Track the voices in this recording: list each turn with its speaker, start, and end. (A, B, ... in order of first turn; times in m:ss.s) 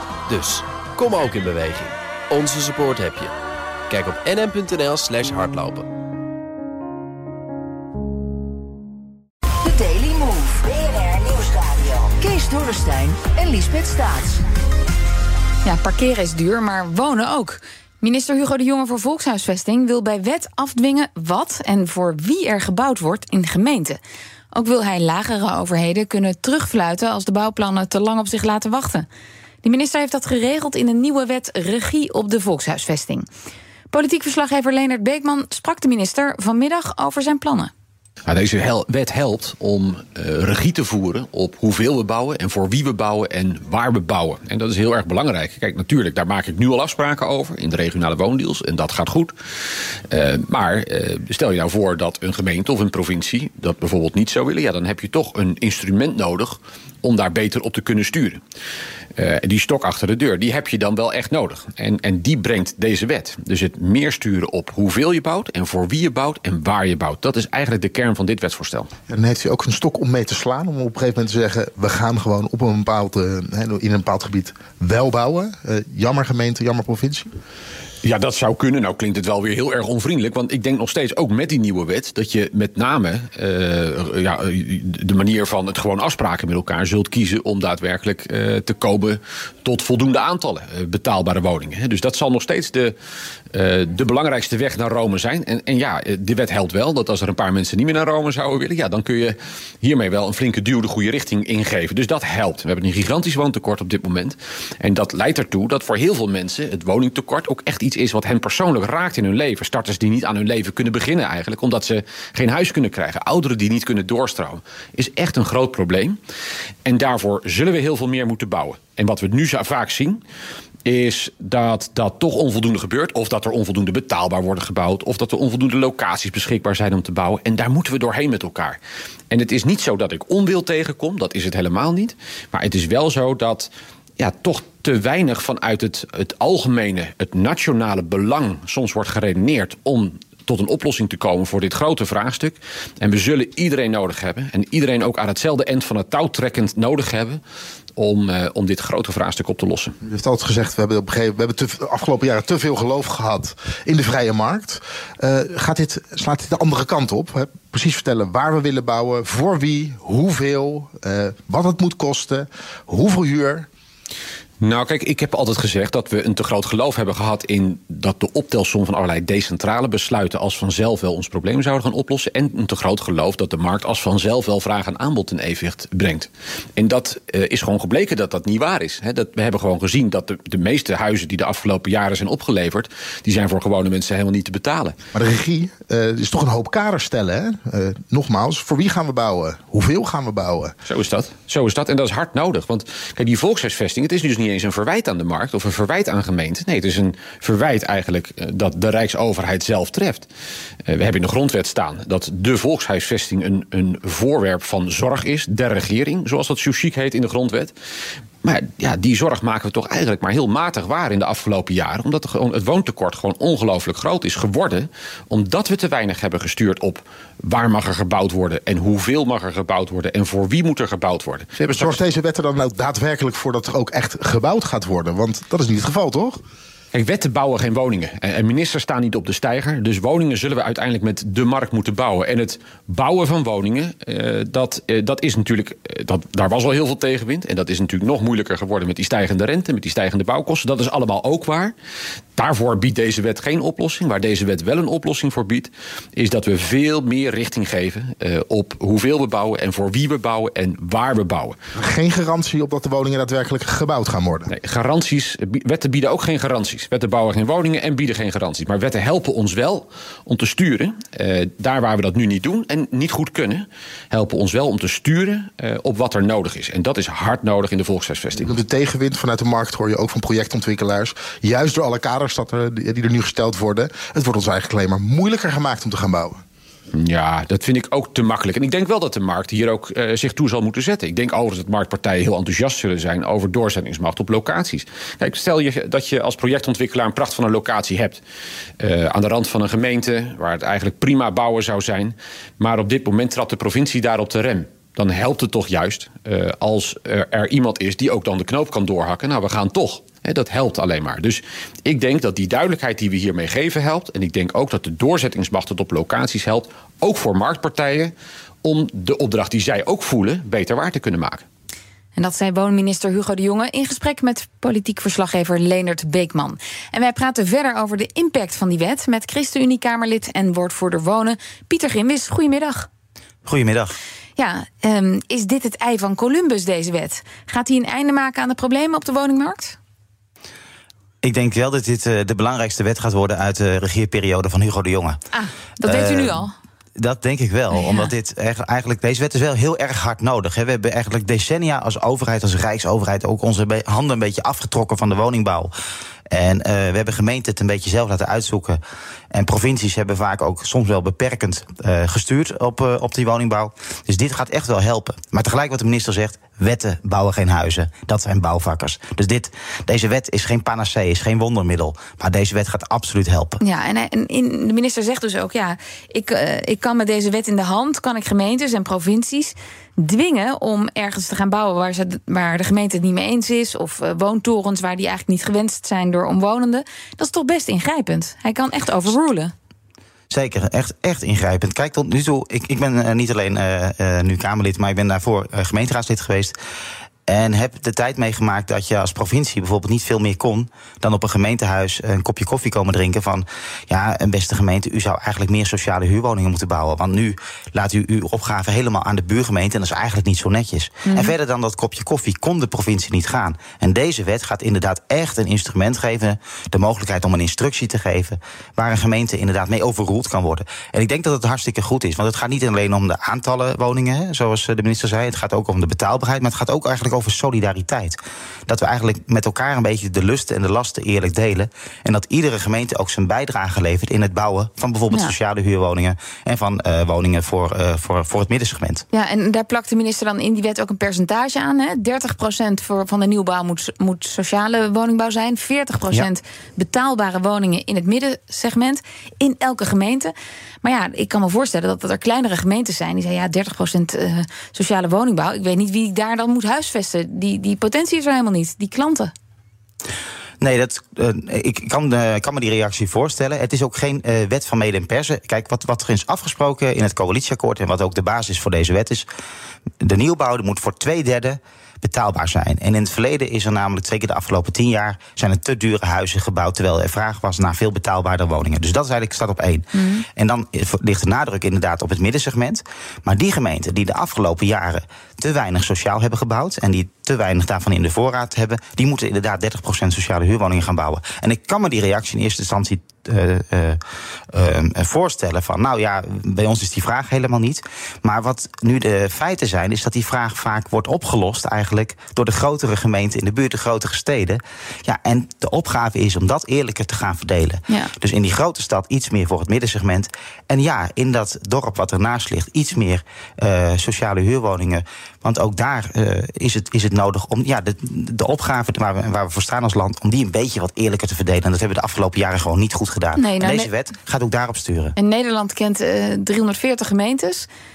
0:00.3-0:03.3 A
0:03.9-0:05.9 A
0:09.6-0:14.4 B
0:15.6-0:24.0 C
0:24.5-0:29.1 C
0:29.6-0:33.3 C
0:33.9-0:37.7 C
0:38.3-0:49.3 D
0:50.1-0:58.4 D
0:59.2-1:08.9 D
1:09.1-1:17.3 E
1:18.0-1:32.9 D
1:33.5-1:56.2 D
1:56.8-2:00.2 D
2:00.8-2:08.8 D
2:09.3-2:27.4 D
2:28.0-2:29.9 D
2:30.0-2:43.7 E
2:44.6-3:05.0 D
3:05.1-3:10.7 E
3:10.8-3:20.3 D
3:20.8-3:27.7 D
3:28.4-3:42.0 D
3:41.7-3:46.4 E
3:46.9-4:01.7 D
4:02.4-4:11.6 D
4:11.7-4:14.5 E
4:14.5-4:28.6 D
4:28.4-4:36.4 E
4:36.9-4:48.2 D
4:48.8-5:08.1 D
5:08.6-5:11.4 D
5:12.1-5:22.9 C
5:23.4-5:24.0 F
5:24.4-5:29.8 C
5:31.2-5:35.2 F
5:35.3-5:36.5 C
5:35.8-5:45.7 F
5:37.7-5:38.1 C
5:46.3-5:48.8 F
5:49.3-6:03.6 F
6:03.6-6:19.5 C
6:20.3-6:26.5 F
6:27.3-7:09.0 F
6:41.0-6:41.3 C
7:09.1-7:29.3 C
7:30.6-7:39.3 F
7:40.0-8:04.0 F
7:49.9-7:50.2 C
8:04.5-8:35.1 F
8:33.3-8:33.9 C
8:35.2-8:37.7 C